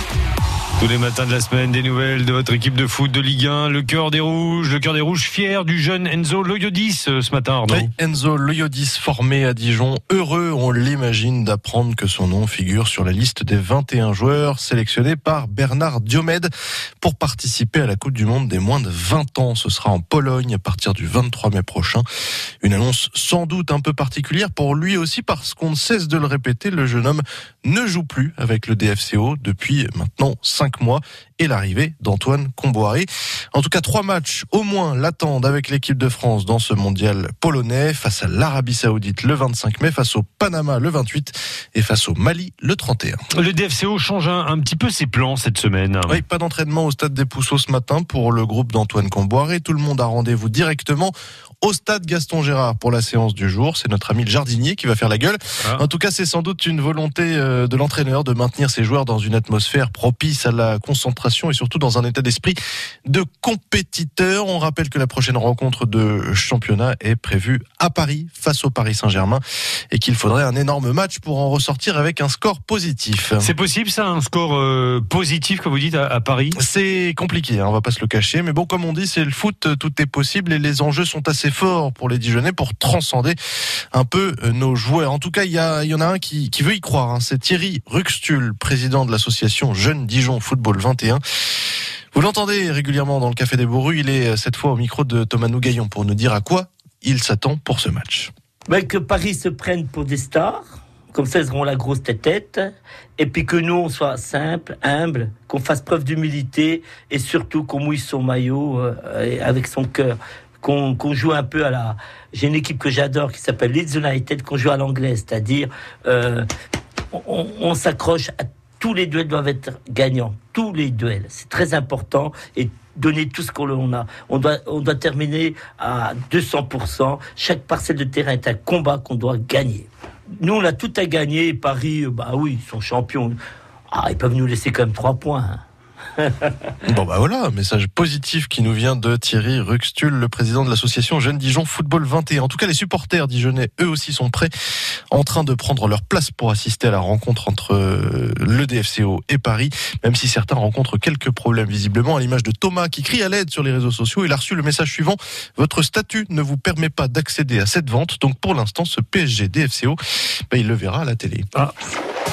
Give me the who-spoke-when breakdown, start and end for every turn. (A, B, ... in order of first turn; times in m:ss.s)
0:00.8-0:07.9 A
0:07.7-0:16.5 B
0:17.0-0:22.0 B
0:22.6-0:43.2 B
0:43.3-0:46.2 A
0:46.1-1:09.4 B
1:09.9-1:13.5 B
1:13.4-1:16.6 A
1:16.6-1:23.4 B
1:23.9-1:31.2 B
1:32.1-1:38.3 B
1:38.7-1:42.6 C
1:43.2-1:56.5 C
1:57.1-2:13.4 C
2:13.9-2:15.6 C
2:16.2-2:16.7 C
2:16.8-2:24.5 B
2:25.1-2:40.0 B
2:40.5-2:41.5 B